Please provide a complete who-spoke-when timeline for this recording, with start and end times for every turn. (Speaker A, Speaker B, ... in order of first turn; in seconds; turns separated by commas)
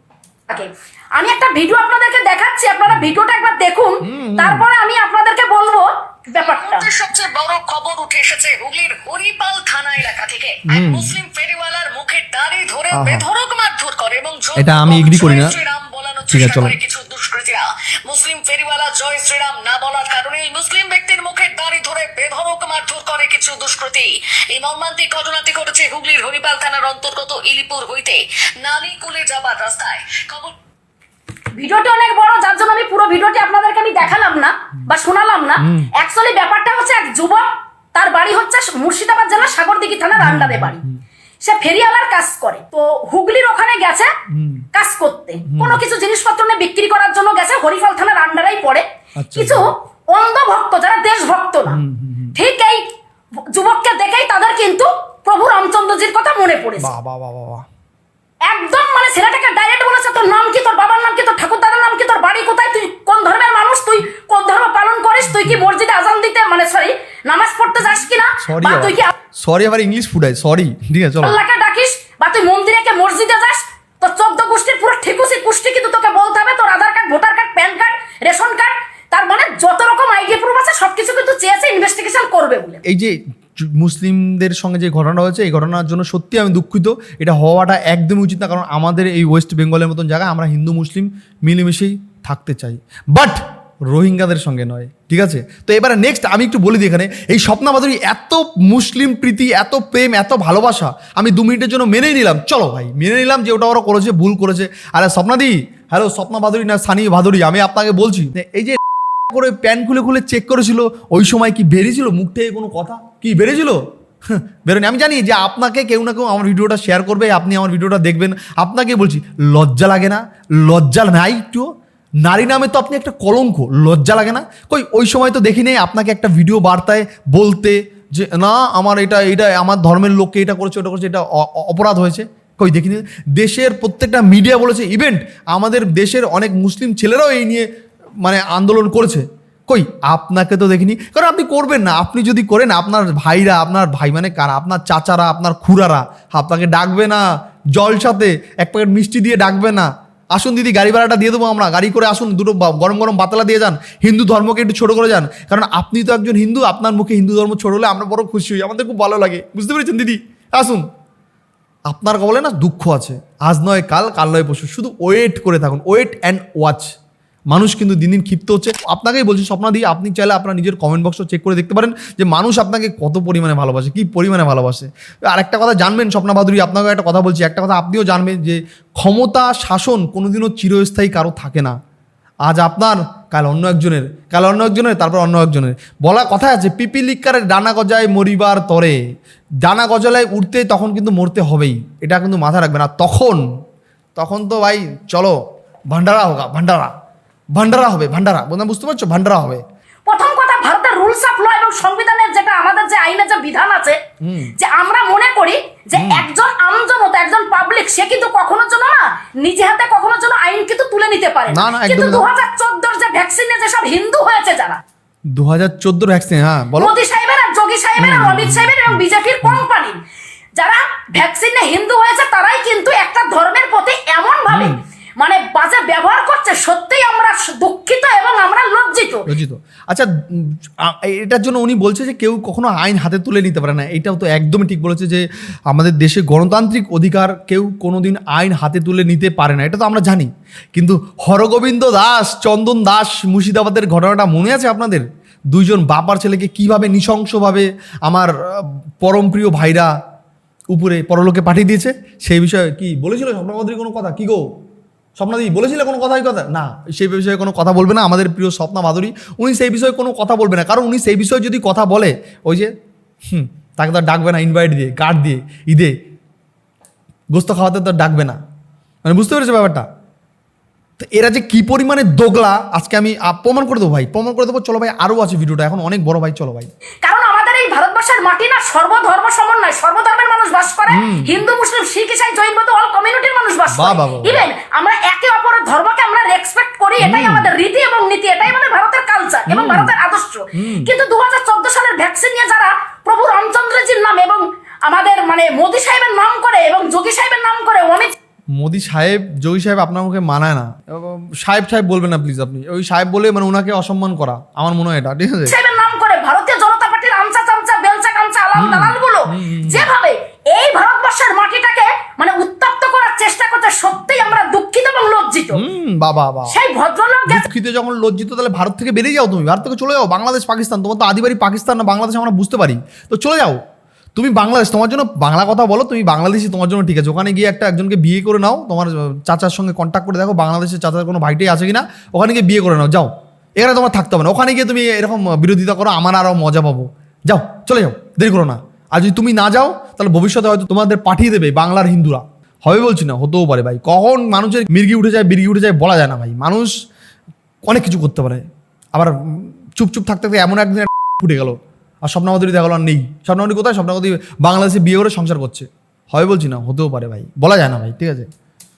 Speaker A: 0.5-6.9, Speaker B: 2.9-3.1, Speaker B: 4.0-4.7, Speaker C: 6.4-30.5, Speaker B: 10.7-11.2, Speaker B: 12.9-13.2, Speaker B: 14.6-15.5, Speaker B: 16.3-16.7, Speaker A: 31.6-40.8, Speaker B: 35.6-35.9, Speaker B: 40.1-41.0, Speaker A: 41.4-44.1, Speaker B: 44.3-44.6, Speaker A: 44.7-48.8, Speaker B: 45.5-45.8, Speaker B: 49.2-49.7, Speaker A: 49.4-51.8, Speaker B: 51.7-52.4, Speaker A: 52.4-52.8, Speaker A: 53.5-56.9, Speaker B: 56.8-57.6, Speaker A: 58.5-69.1, Speaker B: 65.3-65.6, Speaker B: 68.4-71.4, Speaker A: 71.2-82.8, Speaker B: 82.8-93.4, Speaker B: 93.9-108.8, Speaker B: 109.3-121.7, Speaker B: 122.2-137.7, Speaker B: 138.2-147.2, Speaker B: 147.8-160.8, Speaker B: 161.9-166.9, Speaker B: 167.5-181.8, Speaker B: 182.4-189.0, Speaker B: 189.6-193.4, Speaker B: 194.2-195.3, Speaker B: 195.9-196.9, Speaker B: 197.5-199.6, Speaker A: 200.1-204.0, Speaker B: 204.2-204.5, Speaker A: 204.6-214.8, Speaker B: 205.9-206.3, Speaker B: 211.5-212.3, Speaker B: 215.3-217.0, Speaker A: 216.8-220.0, Speaker B: 218.0-219.6, Speaker A: 220.6-229.3, Speaker B: 224.5-224.8, Speaker B: 229.3-249.9, Speaker B: 250.7-254.4, Speaker B: 255.2-262.7, Speaker B: 263.3-265.9, Speaker B: 267.3-268.4, Speaker B: 269.0-269.8, Speaker B: 271.0-276.7, Speaker A: 277.0-298.1, Speaker B: 280.9-281.4, Speaker B: 283.7-284.4, Speaker B: 287.0-287.5, Speaker B: 289.5-289.9, Speaker B: 290.6-290.9, Speaker B: 298.6-305.5, Speaker A: 305.5-315.6, Speaker B: 308.6-309.9, Speaker B: 315.5-316.5, Speaker A: 316.5-317.5, Speaker B: 317.3-323.6, Speaker B: 324.1-346.7, Speaker B: 347.6-348.4, Speaker B: 348.9-358.3